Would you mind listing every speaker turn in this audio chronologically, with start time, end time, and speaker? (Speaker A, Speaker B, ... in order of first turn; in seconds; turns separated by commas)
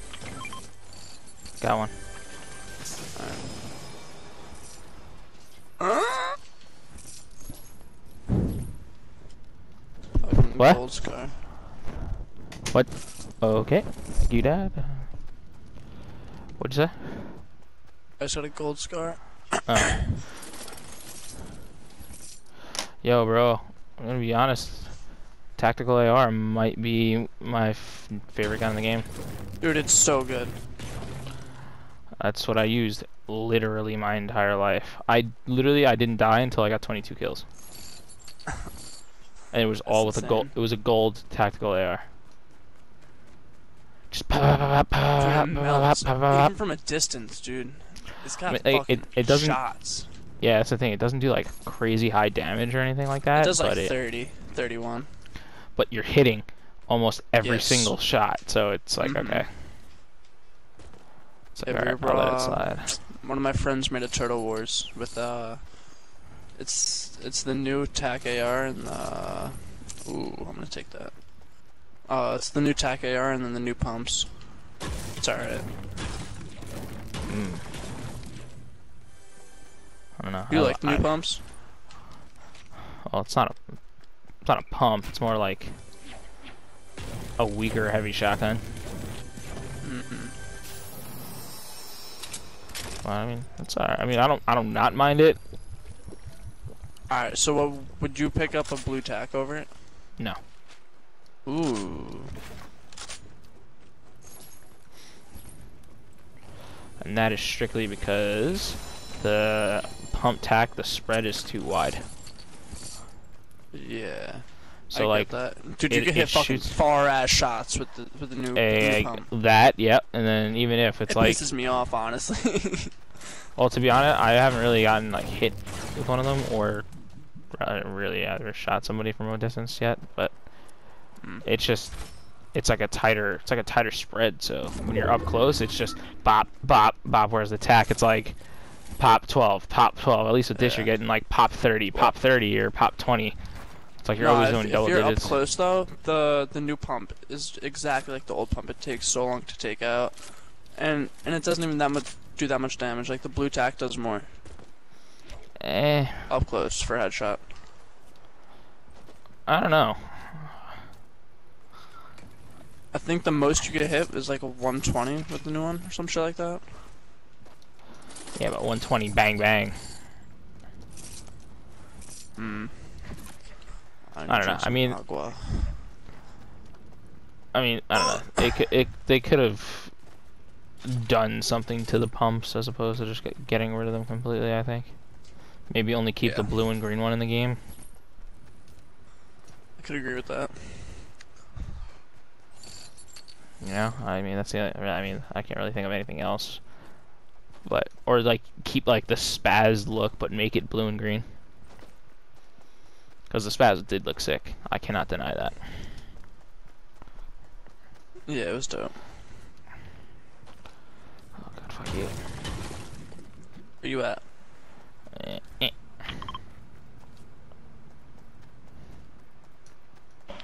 Speaker A: 1.6-1.9, Speaker B: 3.1-3.5, Speaker B: 5.8-6.4, Speaker B: 10.2-11.4, Speaker A: 10.6-10.8, Speaker A: 12.7-15.1, Speaker A: 16.6-17.1, Speaker B: 18.2-19.6, Speaker A: 19.6-20.1, Speaker A: 23.0-29.1, Speaker B: 29.6-30.6, Speaker A: 32.2-37.4, Speaker A: 39.5-42.0, Speaker B: 39.9-40.5, Speaker A: 44.1-46.5, Speaker B: 45.1-50.1, Speaker A: 48.5-49.8, Speaker A: 50.4-54.0, Speaker B: 53.3-55.1, Speaker A: 55.7-59.6, Speaker B: 57.4-58.0, Speaker B: 59.0-59.5, Speaker A: 61.5-62.9, Speaker B: 61.6-65.8, Speaker B: 66.5-71.2, Speaker B: 72.0-75.7, Speaker A: 77.3-77.7, Speaker A: 80.2-81.2, Speaker B: 80.5-81.5, Speaker A: 83.0-85.8, Speaker A: 87.4-88.6, Speaker B: 89.8-90.4, Speaker A: 93.0-95.4, Speaker B: 97.1-99.7, Speaker B: 101.5-102.3, Speaker A: 107.0-112.1, Speaker B: 113.7-119.3, Speaker A: 114.9-116.7, Speaker A: 118.5-121.4, Speaker B: 121.1-123.1, Speaker A: 123.5-126.9, Speaker A: 127.4-145.4, Speaker B: 131.2-131.4, Speaker B: 140.5-140.9, Speaker B: 144.2-154.3, Speaker A: 155.6-156.3, Speaker B: 156.3-157.5, Speaker A: 159.4-160.6, Speaker B: 162.9-166.7, Speaker A: 168.3-170.0, Speaker B: 172.3-173.2, Speaker B: 174.1-175.8, Speaker A: 174.3-175.0, Speaker A: 177.5-180.0, Speaker A: 180.8-187.6, Speaker B: 186.2-186.6, Speaker B: 189.8-191.1, Speaker A: 193.6-197.0, Speaker A: 197.6-201.2, Speaker A: 203.3-205.9, Speaker B: 208.2-209.0, Speaker A: 211.3-212.2, Speaker B: 213.8-214.3, Speaker A: 215.1-216.0